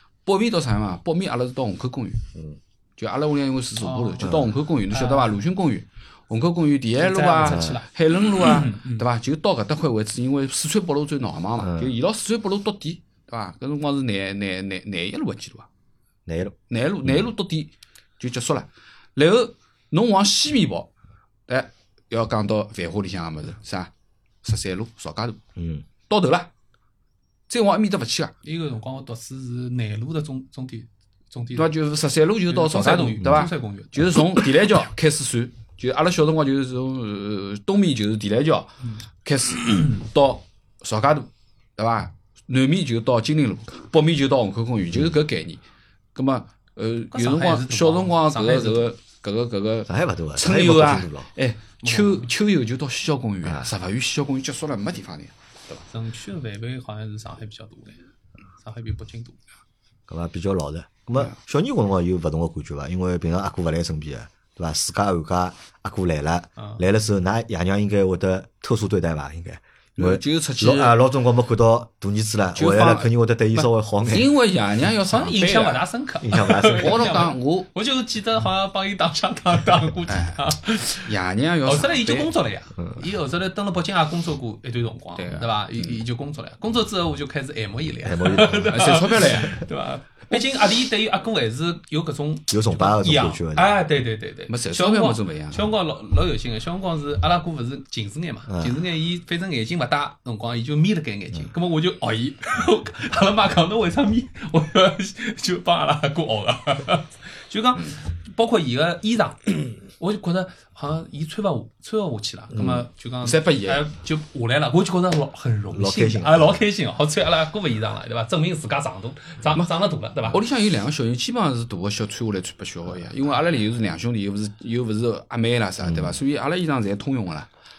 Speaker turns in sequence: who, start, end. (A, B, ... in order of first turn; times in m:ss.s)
0:00.2-0:02.3 A
0:03.0-0:15.7 A
0:03.8-0:04.3 B
0:04.9-0:05.4 B
0:07.0-0:09.0 B
0:07.4-0:07.8 C
0:11.6-0:11.9 C
0:16.2-0:16.6 C
0:16.7-0:20.9 A
0:21.5-0:23.9 A
0:24.4-0:25.4 A
0:25.6-0:25.8 C
0:26.1-0:26.5 A
0:27.5-0:28.3 A
0:28.4-0:31.7 B
0:31.5-0:45.6 A
0:32.5-0:34.2 B
0:46.1-0:55.8 A
0:47.1-0:48.9 B
0:49.9-0:51.3 C
0:51.8-0:52.3 B
0:55.9-0:58.0 B
0:58.6-0:59.4 B
1:00.1-1:14.3 C
1:10.0-1:11.0 A
1:12.6-1:15.9 A
1:15.0-1:21.1 B
1:16.2-1:17.1 C
1:16.7-1:17.7 A
1:20.1-1:20.4 A
1:21.0-1:22.3 A
1:21.6-2:00.4 B
1:25.2-1:26.0 A
1:28.0-1:28.7 C
1:28.7-1:29.6 A
1:32.5-1:33.7 C
1:34.5-1:35.7 A
1:38.5-1:38.8 C
1:52.5-1:52.8 C
1:53.2-1:53.9 A
1:55.7-1:56.6 C
2:00.3-2:07.5 A
2:05.8-2:06.2 C